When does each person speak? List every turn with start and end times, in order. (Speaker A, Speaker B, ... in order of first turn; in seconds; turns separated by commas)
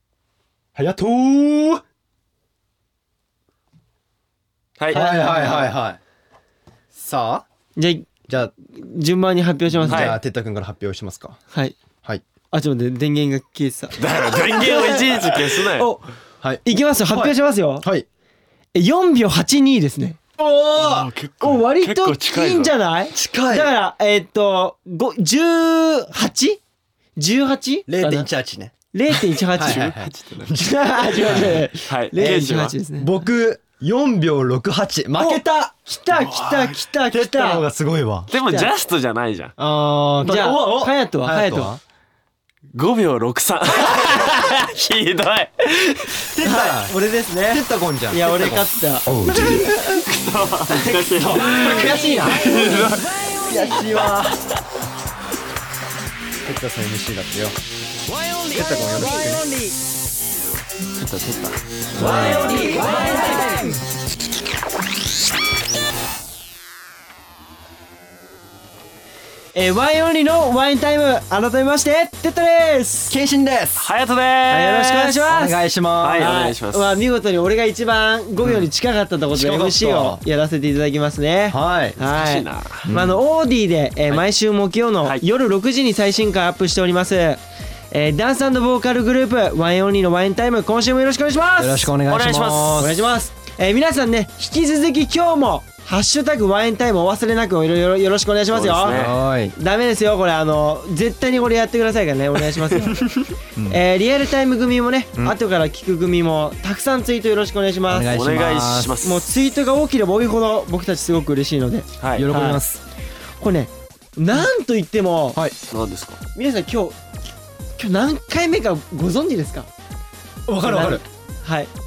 Speaker A: 0.8-1.8, Speaker B: 4.8-5.0, Speaker A: 4.9-6.0, Speaker C: 4.9-5.7, Speaker A: 6.9-7.5, Speaker C: 7.8-8.1, Speaker A: 8.3-8.5, Speaker C: 8.7-10.2, Speaker A: 9.7-11.4, Speaker B: 9.9-10.2, Speaker C: 11.5-11.8, Speaker C: 12.5-16.0, Speaker B: 14.0-15.9, Speaker A: 16.4-18.1, Speaker C: 16.6-17.9, Speaker C: 18.7-20.2, Speaker A: 20.4-21.1, Speaker B: 20.8-22.7, Speaker C: 21.4-26.6, Speaker A: 23.1-23.7, Speaker C: 27.2-28.3, Speaker A: 27.9-28.7, Speaker C: 28.9-29.8, Speaker A: 29.6-31.6, Speaker B: 29.6-30.5, Speaker C: 30.5-33.1, Speaker B: 31.3-32.8, Speaker A: 33.0-35.7, Speaker C: 35.2-37.6, Speaker B: 36.1-36.8, Speaker A: 37.1-38.3, Speaker B: 38.3-39.5, Speaker C: 38.4-38.7, Speaker A: 39.6-41.8, Speaker C: 40.2-41.8, Speaker B: 42.7-46.3, Speaker A: 46.2-47.0, Speaker C: 46.4-50.0, Speaker A: 47.5-49.9, Speaker B: 49.3-54.0, Speaker A: 50.7-52.8, Speaker C: 51.5-53.9, Speaker A: 53.4-54.4, Speaker A: 56.4-57.6, Speaker C: 58.2-59.8, Speaker B: 58.5-59.1, Speaker A: 58.5-59.4, Speaker B: 61.0-63.4, Speaker A: 62.0-63.7, Speaker C: 62.0-63.8, Speaker C: 69.5-73.2, Speaker A: 73.1-73.9, Speaker B: 73.8-75.3, Speaker C: 74.5-75.6, Speaker A: 75.3-76.3, Speaker B: 76.0-76.9, Speaker C: 76.2-87.4, Speaker A: 79.3-80.2, Speaker A: 81.5-82.0, Speaker B: 82.1-82.9, Speaker A: 82.8-83.2, Speaker C: 87.9-91.9, Speaker A: 91.6-93.0, Speaker B: 92.1-92.9, Speaker C: 92.8-108.1, Speaker B: 98.5-99.2, Speaker A: 98.9-99.5, Speaker A: 107.9-109.0, Speaker B: 108.1-109.3, Speaker C: 109.0-112.6, Speaker B: 112.0-112.3, Speaker A: 112.1-112.8, Speaker C: 113.4-115.4, Speaker B: 115.7-116.2, Speaker C: 116.3-117.0, Speaker C: 117.8-119.7, Speaker A: 120.5-121.0, Speaker C: 120.6-121.7